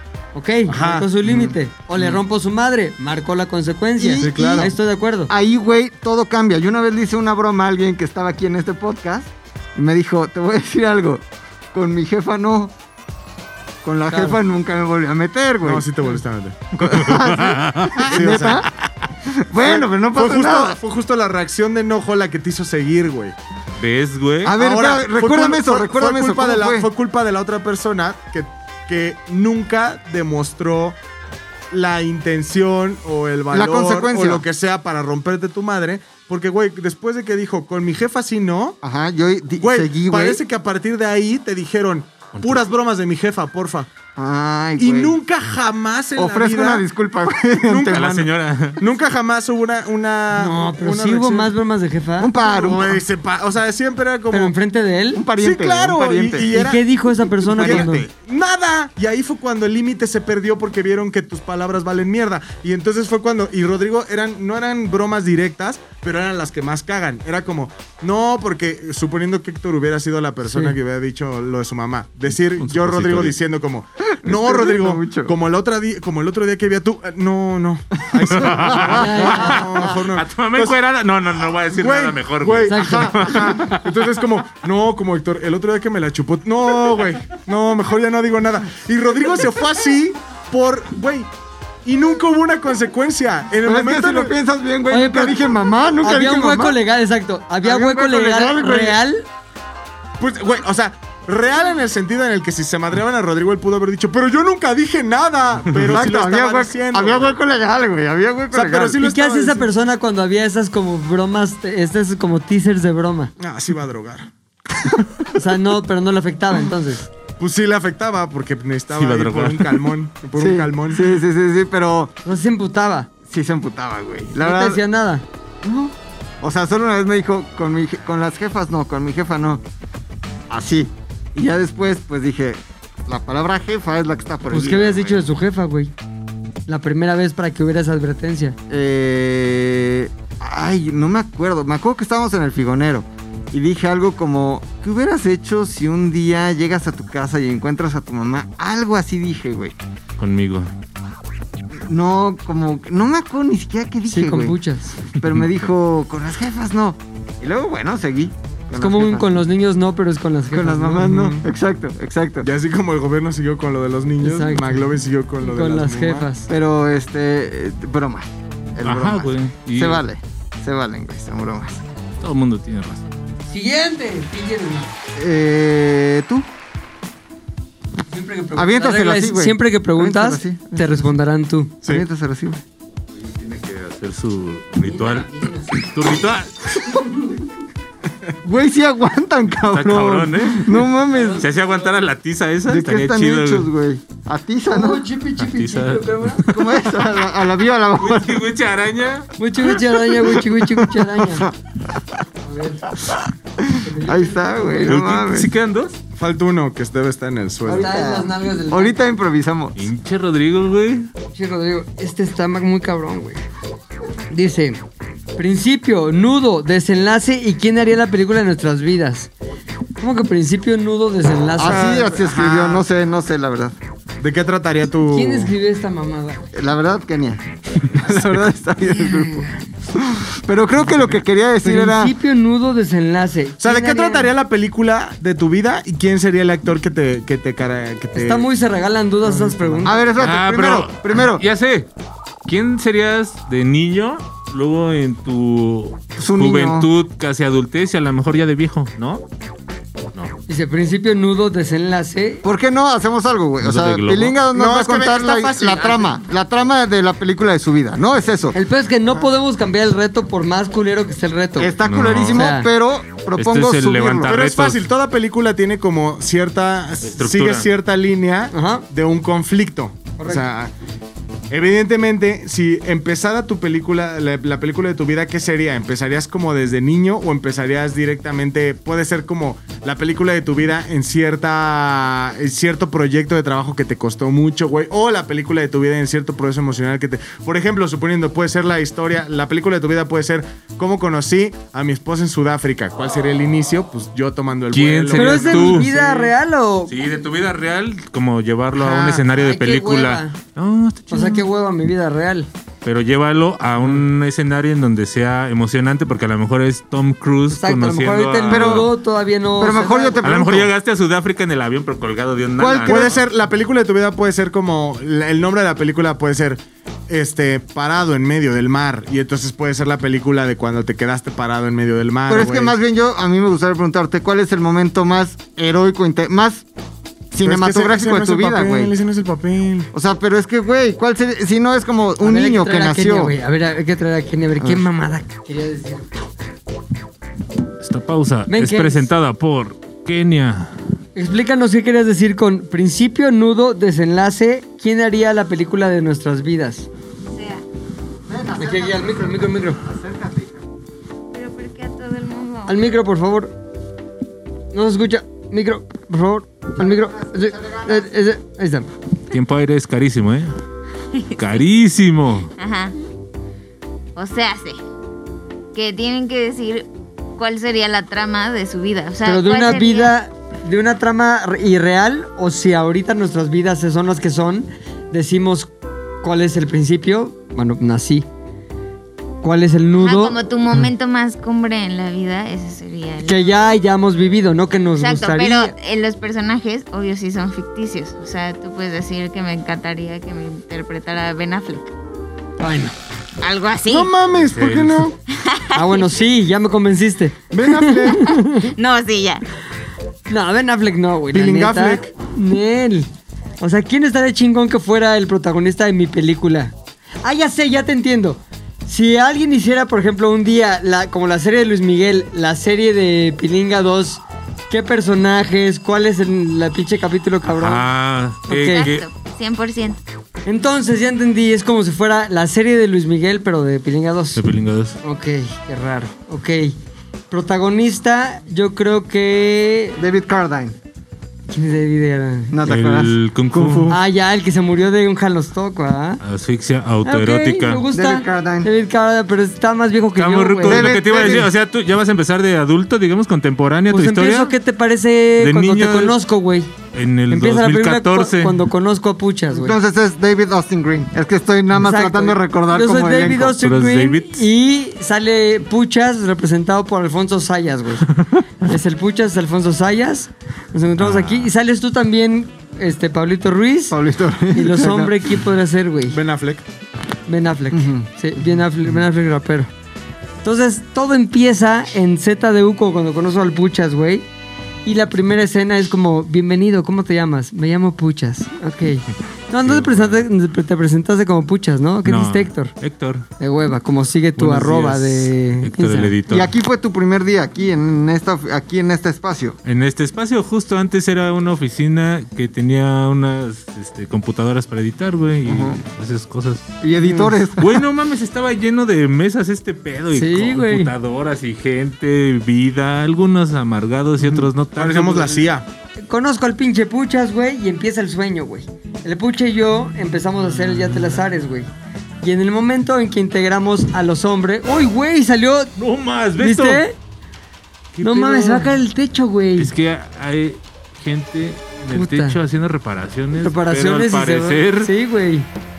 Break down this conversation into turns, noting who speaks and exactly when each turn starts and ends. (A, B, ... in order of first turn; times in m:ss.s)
0:00.3-0:05.3 A
0:00.7-0:01.1 B
0:01.2-0:01.6 C
0:04.0-0:04.8 C
0:04.2-0:04.7 B
0:05.3-0:12.7 C
0:13.8-0:15.9 C
0:14.1-0:14.4 A
0:15.6-0:16.7 B
0:16.8-0:18.7 C
0:16.9-0:18.1 D
0:18.0-0:18.7 B
0:19.2-0:20.8 C
0:19.6-0:23.4 B
0:23.8-0:24.6 D
0:24.4-0:26.9 C
0:24.6-0:31.0 B
0:31.7-0:38.8 B
0:33.5-0:34.4 C
0:38.8-0:40.4 C
0:39.6-0:43.9 B
0:42.3-0:42.7 D
0:44.2-0:45.2 C
0:44.8-0:46.8 B
0:46.2-0:48.3 C
0:47.6-0:48.3 B
0:47.9-0:48.8 D
0:48.8-0:51.5 B
0:50.3-0:52.3 A
0:52.2-0:53.0 C
0:52.4-0:54.5 B
0:54.3-0:55.2 A
0:55.1-0:56.6 C
0:55.4-0:56.9 B
0:56.5-0:58.0 A
0:57.4-0:58.1 C
0:57.5-1:20.8 B
1:12.6-1:13.4 D
1:14.2-1:15.4 C
1:18.2-1:19.9 C
1:18.3-1:23.9 D
1:18.9-1:19.6 A
1:21.7-1:31.3 B
1:22.7-1:23.2 A
1:31.8-1:34.4 B
1:33.6-1:36.8 C
1:34.9-1:35.5 A
1:36.0-1:39.3 A
1:37.6-1:39.0 C
1:40.2-1:47.4 B
1:45.8-1:49.0 C
1:48.5-1:49.7 B
1:49.0-1:53.3 A
1:53.4-1:54.3 B
1:55.3-1:57.0 A
1:57.4-2:01.2 B
1:58.9-1:59.9 D
2:00.4-2:02.1 C
2:02.2-2:03.1 A
2:03.2-2:04.8 C
2:04.4-2:05.2 A
2:05.6-2:09.6 C
2:10.5-2:15.3 C
2:14.5-2:15.9 A
2:16.7-2:18.6 A
2:18.7-2:29.8 C
2:30.2-2:30.7 D
2:31.7-2:34.6 C
2:34.1-2:35.0 A
2:35.1-2:39.3 C
2:38.8-2:41.2 A
2:40.5-2:42.5 C
2:41.0-2:41.5 B
2:42.4-2:46.3 B
2:44.2-2:44.8 A
2:45.4-2:46.5 A
2:46.5-2:51.8 C
2:48.8-2:50.0 D
2:52.2-2:53.0 D
2:53.5-2:54.9 A
2:55.2-2:56.5 C
2:58.1-3:01.8 A
2:58.6-3:01.1 C
3:01.8-3:02.6 C
3:03.2-3:07.0 D
3:04.9-3:05.7 A
3:07.0-3:07.4 A
3:08.4-3:11.5 C
3:09.7-3:10.9 D
3:11.1-3:11.4 A
3:11.4-3:13.7 D
3:12.7-3:15.0 C
3:14.7-3:16.5 A
3:15.4-3:16.8 D
3:16.5-3:18.5 C
3:18.0-3:19.3 D
3:19.4-3:21.5 A
3:19.7-3:22.0 C
3:22.4-3:22.9 A
3:23.0-3:25.5 C
3:23.8-3:25.0 A
3:24.8-3:26.0 D
3:26.2-3:28.0 B
3:27.7-3:29.9 C
3:27.7-3:29.0 A
3:29.8-3:31.1 D
3:31.3-3:33.4 A
3:34.3-3:34.8 A
3:35.4-3:39.3 A
3:40.0-3:42.2 A
3:41.6-3:43.8 C
3:41.6-3:42.8 B
3:44.2-3:45.5 B
3:45.1-3:46.5 A
3:46.5-3:52.2 C
3:48.8-3:49.6 A
3:50.9-3:51.2 B
3:51.6-3:54.3 A
3:53.6-3:58.5 B
3:58.1-4:00.0 A
3:59.2-4:00.1 B
3:59.8-4:01.4 C
4:00.2-4:01.9 D
4:02.5-4:09.2 D
4:06.2-4:06.9 C
4:10.5-4:12.4 A
4:12.4-4:18.6 C
4:13.6-4:14.4 D
4:14.5-4:16.2 B
4:18.5-4:21.8 A
4:21.6-4:24.3 C
4:21.8-4:22.5 D
4:22.3-4:22.7 A
4:23.4-4:24.8 D
4:24.3-4:30.7 B
4:27.0-4:27.7 D
4:28.5-4:28.8 A
4:30.2-4:30.4 A
4:31.5-4:56.2 B
4:54.7-4:55.9 D
4:55.1-4:56.9 A
4:56.9-5:01.5 D
4:58.9-5:00.4 A
5:01.1-5:02.5 A
5:02.8-5:08.9 D
5:07.5-5:10.2 A
5:08.5-5:08.9 C
5:09.6-5:10.7 C
5:10.2-5:13.2 D
5:12.6-5:13.2 C
5:12.8-5:22.8 B
5:22.3-5:26.6 C
5:27.3-5:29.0 C
5:27.4-5:29.9 B
5:29.9-5:33.4 C
5:32.2-5:36.1 A
5:37.8-5:40.8 D
5:38.5-5:39.1 A
5:41.2-5:46.9 A
5:47.3-5:47.6 E
5:48.3-5:50.6 C
5:48.6-5:49.8 A
5:51.3-5:52.9 E
5:52.7-5:53.5 A
5:54.7-5:58.9 A
5:56.8-5:58.1 C
5:59.3-6:00.5 D
6:01.1-6:01.6 E
6:01.4-6:02.5 D
6:02.6-6:02.9 E
6:04.2-6:04.8 E
6:05.7-6:10.1 E
6:09.2-6:15.7 A
6:16.2-6:18.3 A
6:19.4-6:20.4 A
6:20.0-6:23.6 E
6:23.2-6:25.8 A
6:25.0-6:31.9 E
6:32.6-6:32.9 A
6:33.4-6:34.1 E
6:33.9-6:35.2 B
6:34.4-6:35.1 D
6:35.3-6:36.0 E
6:35.8-6:38.7 A
6:37.5-6:38.2 C
6:38.5-6:39.4 E
6:40.3-6:57.9 A
6:41.3-6:42.1 B
6:57.4-6:59.0 D
6:58.5-6:58.9 A
6:58.5-7:00.0 E
7:00.5-7:04.4 A
7:04.4-7:05.0 D
7:05.0-7:06.8 A
7:07.3-7:10.0 A
7:10.0-7:10.8 C
7:11.5-7:12.6 A
7:12.5-7:14.0 C
7:12.7-7:14.0 D
7:13.9-7:16.2 A
7:16.2-7:17.8 D
7:17.0-7:20.9 A
7:17.9-7:18.7 C
7:20.2-7:24.5 D
7:20.6-7:21.5 C
7:23.9-7:26.7 A
7:25.4-7:26.2 D
7:26.9-7:28.6 D
7:27.3-7:29.8 A
7:29.5-7:33.6 C
7:31.8-7:44.0 A
7:33.6-7:34.5 D
7:41.0-7:41.5 D
7:43.9-7:45.3 C
7:44.5-7:46.2 A
7:46.1-7:46.6 B
7:47.3-7:49.7 A
7:47.7-7:48.6 C
7:50.4-7:54.3 A
7:54.8-8:02.7 A
7:59.6-8:00.2 D
8:02.0-8:03.3 D
8:03.4-8:06.1 A
8:04.4-8:06.5 D
8:06.3-8:09.6 C
8:09.6-8:16.7 D
8:15.4-8:15.8 C
8:16.8-8:17.8 C
8:17.0-8:17.3 A
8:17.6-8:25.4 D
8:20.1-8:20.9 A
8:24.2-8:24.5 C
8:24.8-8:25.6 B
8:26.0-8:31.7 A
8:32.2-8:35.7 A
8:35.8-8:36.8 D
8:36.4-8:37.0 A
8:37.9-8:38.8 D
8:38.0-8:39.7 A
8:39.6-8:44.9 D
8:41.9-8:42.4 A
8:43.4-8:45.5 A